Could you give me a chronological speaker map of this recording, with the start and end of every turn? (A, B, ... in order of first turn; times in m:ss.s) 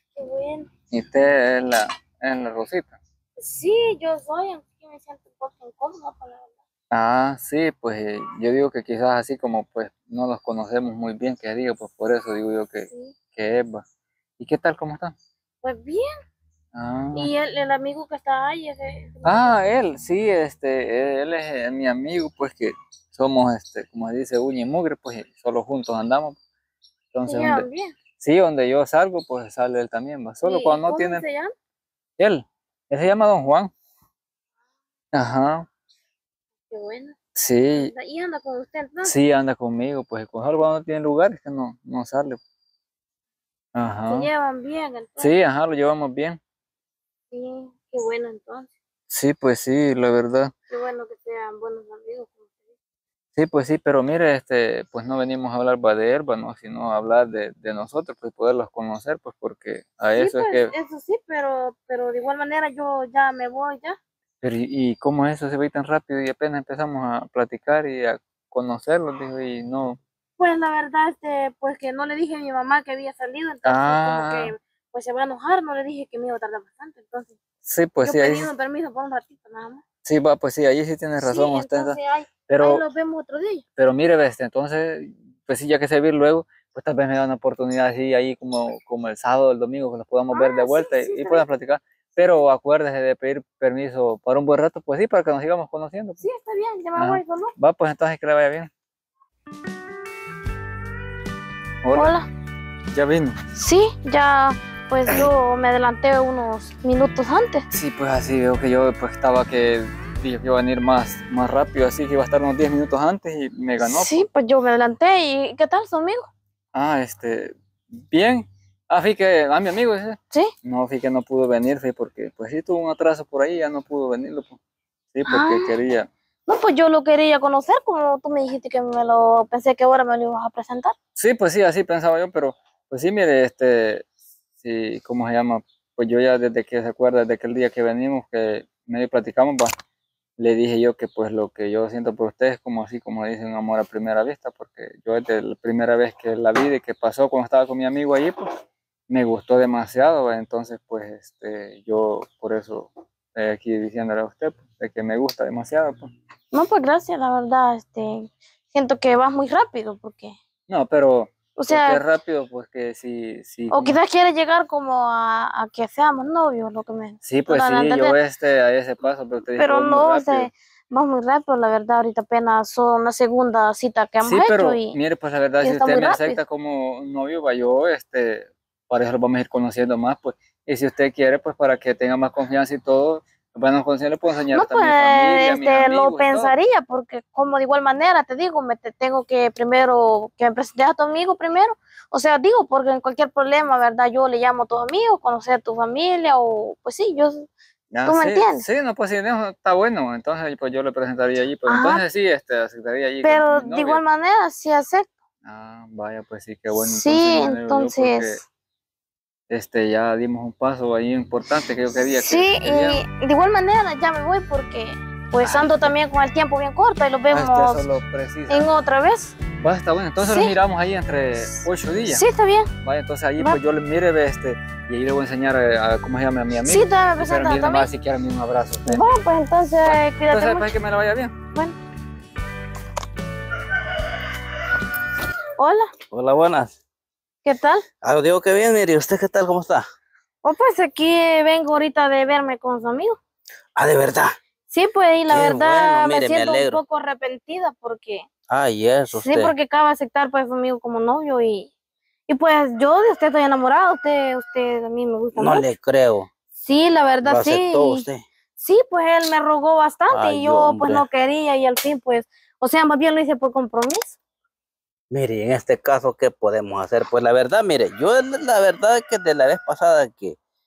0:00.1-0:00.7 A
0:00.9-0:03.0 B
0:03.4-0:06.5 A
0:06.9-0:13.8 B
0:14.4-0:15.1 B
0:15.6-0:16.1 A
0:16.7-0:17.3 B
0:17.1-0:19.8 A
0:19.2-0:26.4 B
0:27.1-0:27.7 B
0:27.3-0:27.9 A
0:28.2-0:31.2 B
0:30.4-0:31.5 A
0:32.2-0:33.7 B
0:35.1-0:35.6 B
0:36.7-0:37.2 A
0:37.4-0:37.9 B
0:37.7-0:39.1 A
0:39.0-0:42.4 B
0:43.7-0:44.3 B
0:44.0-0:45.3 A
0:45.2-0:46.4 B
0:47.3-0:48.7 A
0:49.1-0:50.5 B
0:50.7-0:52.6 A
0:53.4-1:00.7 B
1:00.2-1:04.0 A
1:04.4-1:10.0 B
1:10.4-1:17.4 A
1:13.6-1:14.5 B
1:17.6-1:18.5 B
1:18.0-1:19.8 A
1:20.0-1:22.0 B
1:21.2-1:23.6 A
1:22.5-1:22.8 B
1:23.8-1:36.2 B
1:30.3-1:31.4 A
1:36.2-1:37.5 A
1:37.0-1:38.7 B
1:41.8-1:42.1 B
1:41.9-1:42.2 A
1:42.9-1:43.3 B
1:43.5-1:47.6 A
1:47.7-1:54.2 B
1:53.8-1:56.3 A
1:56.7-1:57.5 B
1:58.1-2:04.6 B
2:05.1-2:06.1 B
2:05.3-2:05.7 A
2:06.5-2:10.9 A
2:11.2-2:14.0 B
2:14.6-2:19.7 B
2:20.4-2:28.5 B
2:29.1-2:36.1 B
2:36.5-2:40.4 A
2:40.7-2:44.0 B
2:41.6-2:42.0 A
2:43.7-2:48.1 A
2:47.2-2:50.5 B
2:49.4-2:55.0 A
2:54.2-3:06.5 B
2:55.6-2:56.4 A
3:04.5-3:17.5 A
3:17.9-3:24.0 B
3:18.0-3:18.6 A
3:21.7-3:22.0 A
3:23.2-3:25.1 A
3:25.4-3:28.4 B
3:26.7-3:28.4 A
3:29.5-3:33.0 B
3:32.1-3:37.8 A
3:35.4-3:35.9 B
3:37.3-3:38.7 B
3:38.5-3:39.3 A
3:39.6-3:42.2 B
3:40.2-3:40.5 A
3:42.0-3:42.7 A
3:42.8-3:49.0 B
3:46.6-3:47.9 A
3:48.9-3:50.7 A
3:49.8-3:51.3 B
3:55.6-3:55.9 A
3:56.1-3:56.8 C
3:57.4-3:57.8 A
3:58.0-3:59.8 C
4:00.4-4:03.2 A
4:03.8-4:04.4 C
4:04.7-4:08.2 A
4:05.3-4:06.8 C
4:08.5-4:09.5 C
4:09.1-4:11.7 A
4:12.3-4:15.6 A
4:15.3-4:16.3 C
4:16.5-4:18.0 A
4:17.2-4:18.2 C
4:18.6-4:24.2 A
4:20.1-4:21.0 C
4:25.1-4:30.4 C